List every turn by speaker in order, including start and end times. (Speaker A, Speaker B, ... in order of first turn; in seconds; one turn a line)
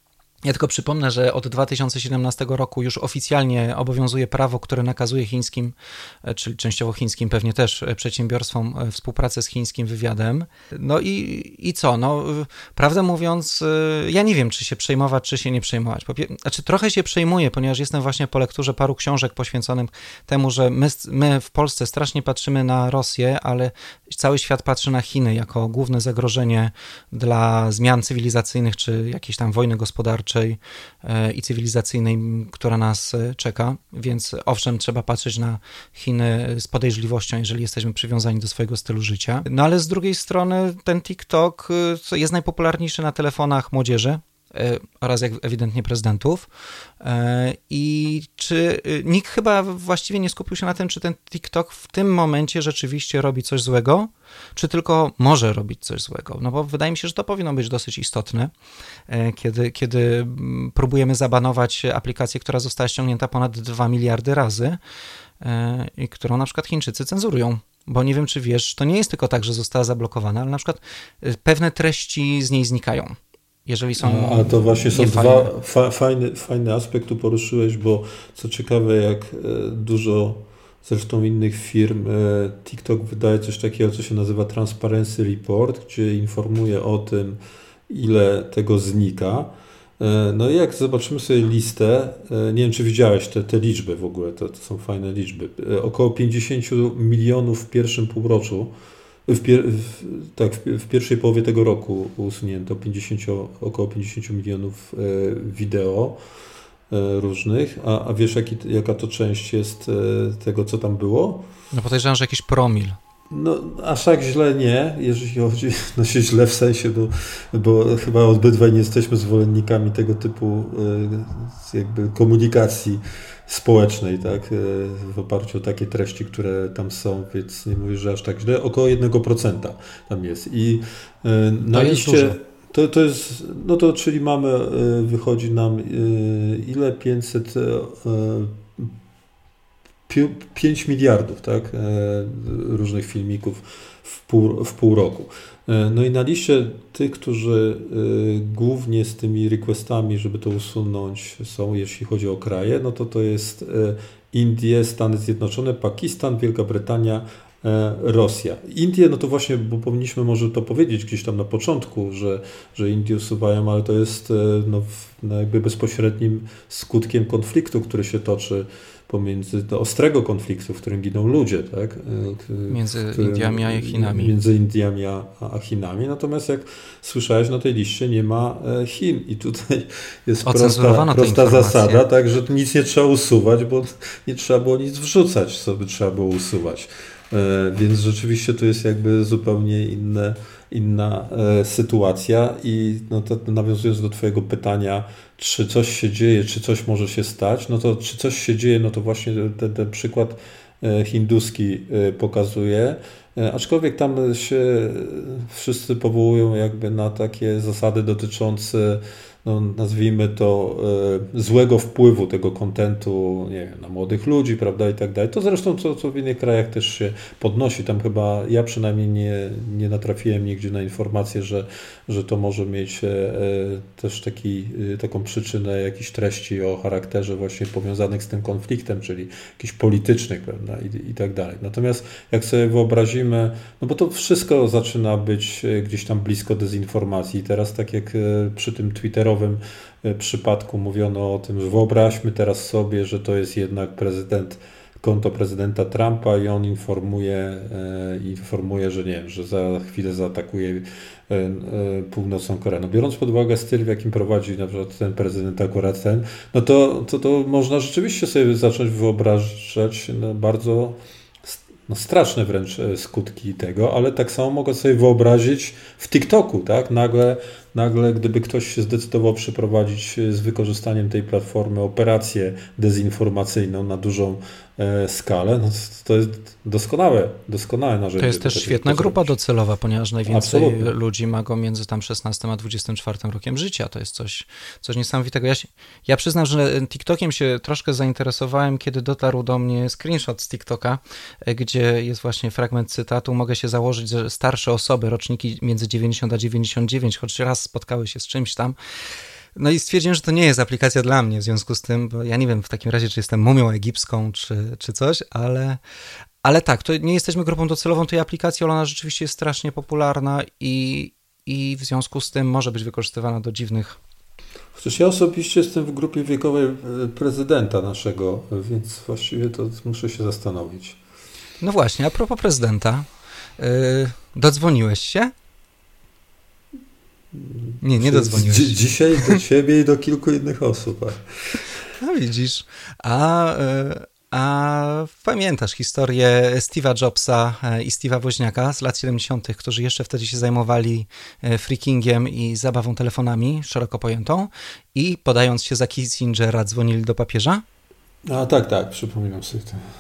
Speaker A: 0.5-5.7
Speaker A: 6.2-46.5
Speaker A: 47.0-58.5
Speaker A: 59.1-64.8
Speaker A: 65.4-75.5
Speaker B: 74.0-98.7
Speaker B: 99.3-106.2
Speaker B: 106.9-111.5
Speaker A: 111.7-113.0
Speaker B: 113.3-138.9
Speaker A: 131.7-132.4
Speaker B: 140.1-279.3
Speaker A: 172.7-174.3
Speaker A: 180.4-182.0
Speaker A: 278.2-298.8
Speaker B: 280.3-280.9
Speaker A: 299.6-305.8
Speaker A: 306.4-314.0
Speaker B: 314.8-321.0
Speaker A: 321.6-325.3
Speaker B: 327.4-331.7
Speaker A: 327.8-329.4
Speaker A: 332.0-347.6
Speaker B: 348.3-349.8